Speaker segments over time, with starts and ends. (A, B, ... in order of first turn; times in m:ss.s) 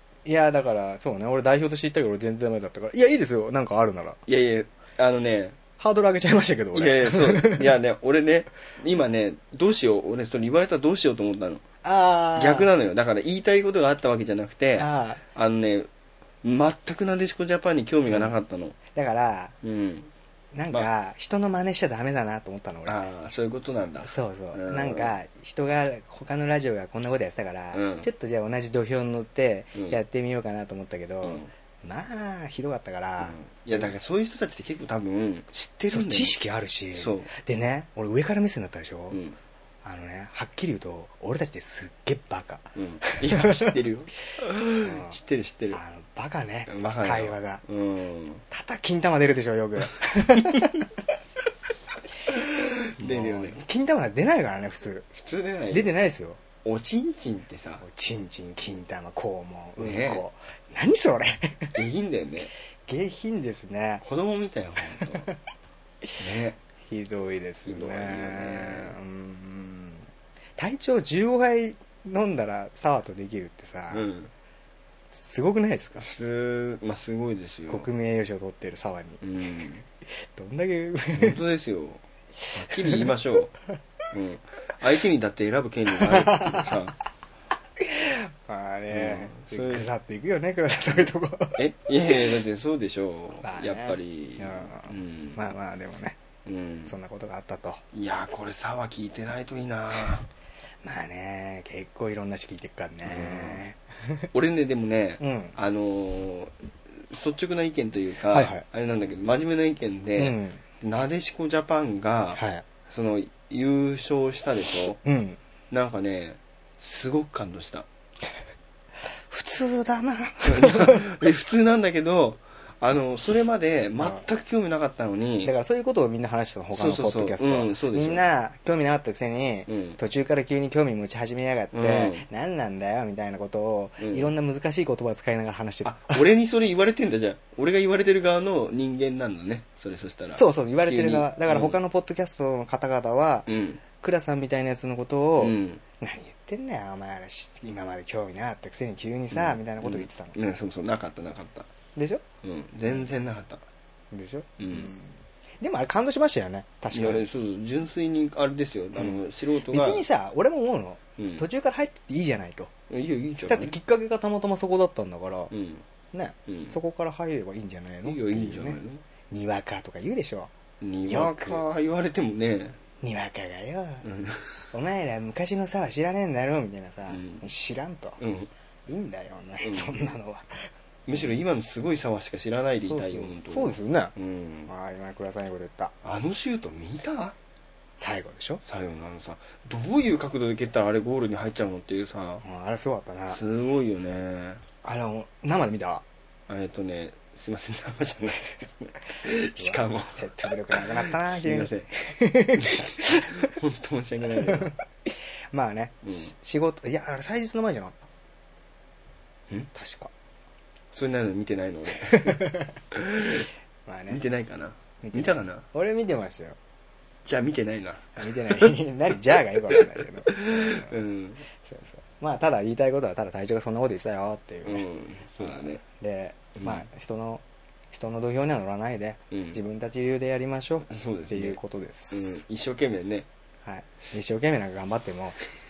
0:00.2-0:04.2 A
0:04.3-0:05.6 B
0:05.8-0:07.7 A
0:06.7-0:11.6 B
0:11.8-0:12.7 A
0:12.4-0:15.9 B
0:14.8-0:15.2 A
0:16.4-0:18.8 B
0:18.1-0:18.4 A
0:18.9-0:19.6 A
0:19.6-0:20.1 B
0:20.5-0:23.0 A
0:22.9-0:25.1 B
0:24.0-0:33.9 A
0:27.7-0:28.1 B
0:29.8-0:30.0 B
0:31.2-0:31.5 B
0:33.2-0:36.4 B
0:35.9-0:39.2 A
0:37.0-0:37.3 B
0:39.1-0:39.4 B
0:39.8-0:43.7 A
0:42.8-0:45.8 B
0:44.8-0:45.2 A
0:45.7-0:47.6 A
0:46.7-0:48.4 B
0:48.5-0:50.9 A
0:52.3-0:53.6 B
0:53.0-0:55.1 A
0:55.2-0:55.9 B
0:55.7-0:56.4 A
0:56.6-0:57.8 B
0:57.8-1:01.8 A
0:59.8-1:00.2 B
1:01.7-1:02.5 B
1:02.9-1:04.0 A
1:04.0-1:05.3 B
1:05.0-1:05.4 A
1:06.2-1:06.6 B
1:06.8-1:14.1 A
1:07.7-1:08.9 B
1:13.9-1:14.3 B
1:15.1-1:16.1 A
1:16.0-1:17.9 B
1:17.7-1:19.2 A
1:19.2-1:19.8 B
1:20.2-1:21.4 A
1:21.1-1:23.5 B
1:22.8-1:23.1 A
1:24.1-1:27.0 B
1:26.0-1:26.7 A
1:27.8-1:31.6 A
1:28.9-1:29.9 B
1:31.6-1:35.4 B
1:33.4-1:36.2 A
1:36.4-1:37.0 B
1:36.9-1:37.8 A
1:37.9-1:40.3 B
1:40.8-1:44.3 A
1:43.0-1:43.6 B
1:44.3-1:55.0 B
1:45.2-1:45.6 A
1:48.3-1:48.6 A
1:50.2-1:50.6 A
1:52.4-1:52.6 A
1:55.0-1:55.4 A
1:55.7-1:57.9 B
1:59.3-2:01.1 A
2:00.4-2:05.5 B
2:05.4-2:16.2 A
2:06.7-2:08.2 B
2:09.7-2:10.0 B
2:11.7-2:12.3 B
2:14.0-2:14.3 B
2:15.8-2:21.8 B
2:20.4-2:30.4 A
2:23.5-2:23.8 B
2:25.4-2:25.8 B
2:29.3-2:31.7 B
2:32.0-2:32.2 A
2:32.4-2:33.6 B
2:34.1-2:37.2 A
2:34.6-2:34.9 B
2:36.9-2:40.0 B
2:39.0-2:42.7 A
2:41.2-2:41.4 B
2:42.9-2:43.7 B
2:43.5-2:45.5 A
2:45.5-2:45.8 B
2:46.1-2:48.8 A
2:46.5-2:46.8 B
2:48.0-2:49.0 B
2:49.3-2:50.5 A
2:50.8-2:52.8 B
2:51.1-2:51.6 A
2:53.0-2:54.0 A
2:54.0-2:54.6 B
2:54.7-2:58.2 A
2:57.1-2:57.4 B
2:58.2-2:58.5 B
2:58.9-3:00.6 A
2:59.6-3:00.0 B
3:01.1-3:04.7 B
3:02.9-3:04.1 A
3:04.7-3:05.9 A
3:06.0-3:07.4 B
3:08.0-3:08.6 A
3:08.6-3:12.4 B
3:12.4-3:13.4 A
3:13.3-3:14.6 B
3:14.8-3:16.0 A
3:16.5-3:20.2 B
3:19.6-3:23.5 A
3:20.7-3:21.9 B
3:22.5-3:24.7 B
3:24.5-3:28.1 A
3:26.0-3:26.3 B
3:29.7-3:30.1 A
3:30.9-3:33.5 B
3:32.1-3:32.7 A
3:33.9-3:34.2 A
3:34.1-3:35.6 B
3:35.0-3:36.6 A
3:37.2-3:38.8 B
3:38.2-3:41.0 A
3:39.4-3:41.4 B
3:41.6-3:44.9 A
3:44.6-3:45.8 B
3:45.4-3:52.4 A
3:46.6-3:46.9 B
3:49.3-3:49.6 B
3:50.9-3:53.3 B
3:53.6-3:55.4 A